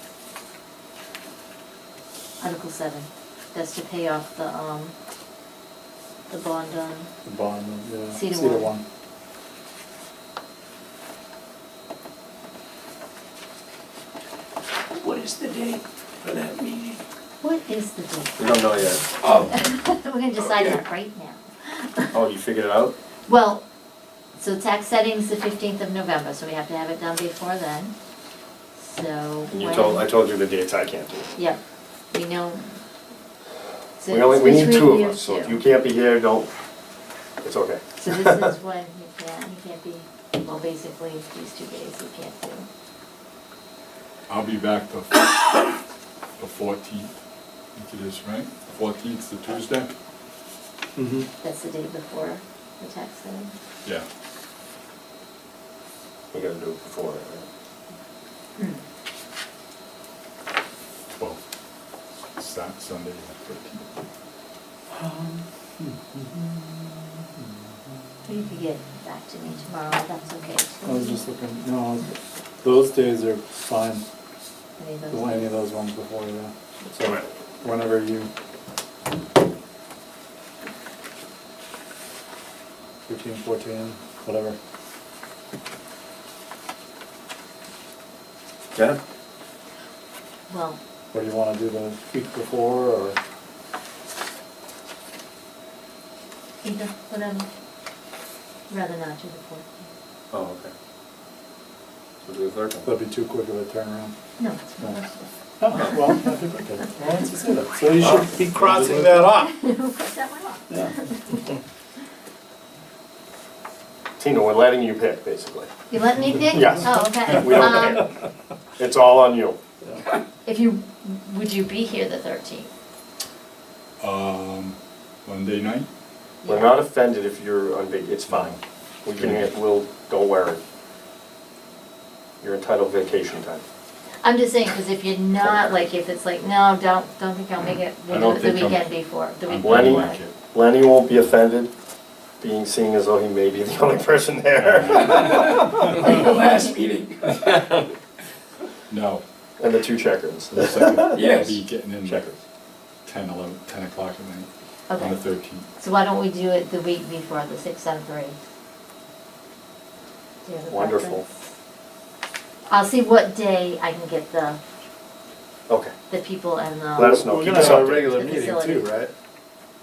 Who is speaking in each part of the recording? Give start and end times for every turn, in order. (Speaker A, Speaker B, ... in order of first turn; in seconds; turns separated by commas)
Speaker A: 2.4-4.9, Speaker A: 6.3-7.1, Speaker B: 7.2-8.8, Speaker A: 8.1-8.7, Speaker A: 17.4-22.2, Speaker C: 18.4-19.5, Speaker C: 22.1-22.9, Speaker A: 23.3-23.6, Speaker A: 24.4-27.9, Speaker A: 28.8-30.1, Speaker C: 29.5-31.3, Speaker A: 32.1-32.8, Speaker A: 34.0-35.6, Speaker C: 34.1-36.5, Speaker C: 37.4-38.5, Speaker A: 38.0-42.7, Speaker D: 44.3-45.8, Speaker D: 46.4-47.1, Speaker D: 47.8-49.9, Speaker B: 51.0-51.3, Speaker A: 51.4-53.5, Speaker C: 56.3-57.5, Speaker A: 58.5-58.8, Speaker D: 61.1-61.4, Speaker D: 62.4-63.9, Speaker B: 64.9-67.0, Speaker A: 68.2-71.2, Speaker B: 70.8-74.0, Speaker A: 74.8-75.6, Speaker B: 75.1-78.3, Speaker B: 83.1-84.6, Speaker A: 90.5-90.8, Speaker B: 91.1-93.2, Speaker A: 96.6-97.5, Speaker A: 98.7-99.9, Speaker C: 100.3-100.7, Speaker C: 102.2-102.9, Speaker B: 102.8-104.1, Speaker A: 104.4-106.3, Speaker B: 105.6-109.2, Speaker C: 108.0-109.0, Speaker A: 109.0-111.4, Speaker C: 114.2-115.7, Speaker A: 115.9-118.0, Speaker C: 116.4-118.0, Speaker C: 118.8-119.6, Speaker A: 120.4-122.7, Speaker D: 124.0-125.9, Speaker A: 126.4-126.8, Speaker C: 126.5-130.6, Speaker D: 128.2-128.6, Speaker D: 129.1-129.5, Speaker C: 132.4-133.6, Speaker A: 134.2-140.2, Speaker D: 138.1-140.3, Speaker C: 139.6-141.7, Speaker C: 142.4-145.8, Speaker D: 144.6-145.2, Speaker E: 146.1-147.8, Speaker D: 148.9-149.2, Speaker C: 149.6-151.4, Speaker D: 150.5-152.3, Speaker E: 151.2-151.5, Speaker C: 152.0-152.4, Speaker D: 153.1-155.7, Speaker A: 154.9-155.2, Speaker A: 155.8-158.3, Speaker A: 160.4-161.2, Speaker C: 160.7-161.2, Speaker A: 162.7-164.6, Speaker A: 166.1-168.9, Speaker C: 166.9-168.0, Speaker B: 167.0-169.1